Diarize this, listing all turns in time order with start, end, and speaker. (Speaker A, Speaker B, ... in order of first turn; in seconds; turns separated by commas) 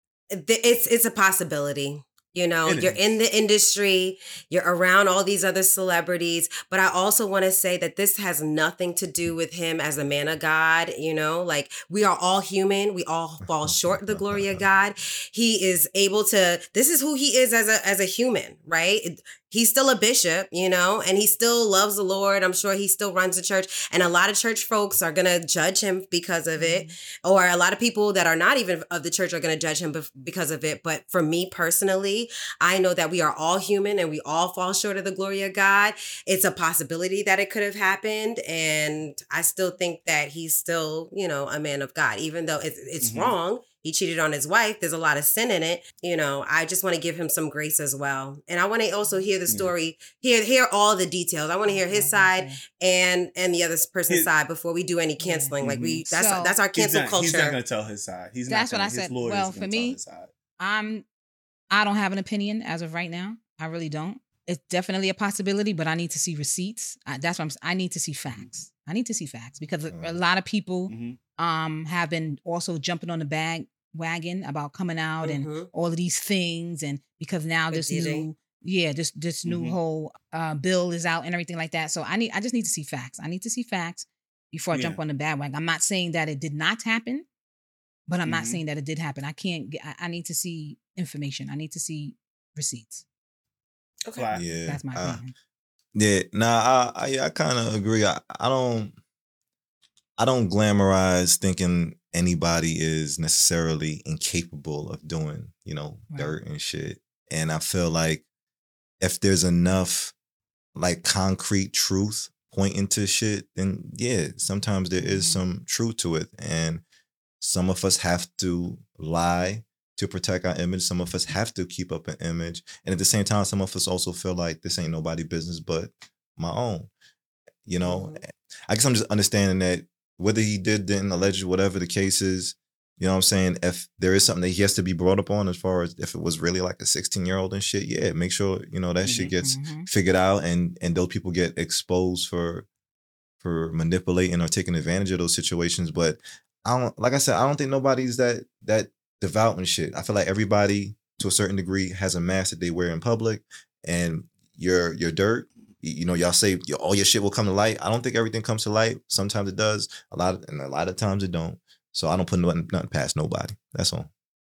Speaker A: 0.3-57.6, Speaker B: 2.6-3.0, Speaker C: 13.4-14.7, Speaker D: 26.6-26.9, Speaker B: 43.0-43.3, Speaker B: 49.5-49.7, Speaker D: 51.7-52.6, Speaker D: 55.2-56.6, Speaker B: 55.6-56.0, Speaker B: 56.7-60.3, Speaker D: 58.5-60.0, Speaker D: 60.6-61.0, Speaker D: 61.7-87.2, Speaker C: 69.9-70.2, Speaker B: 70.9-71.2, Speaker A: 75.2-75.7, Speaker A: 77.7-78.3, Speaker B: 79.5-79.8, Speaker B: 84.7-85.0, Speaker D: 88.1-93.0, Speaker B: 88.2-88.6, Speaker B: 94.1-94.5, Speaker C: 94.3-95.2, Speaker D: 94.7-95.3, Speaker C: 95.9-98.9, Speaker C: 100.2-108.2, Speaker D: 106.1-106.4, Speaker C: 109.0-110.1, Speaker C: 110.7-116.8, Speaker D: 115.0-115.4, Speaker C: 117.4-126.9, Speaker C: 127.6-142.7, Speaker A: 127.8-128.2, Speaker B: 139.1-139.3, Speaker D: 139.4-139.9, Speaker C: 143.4-164.1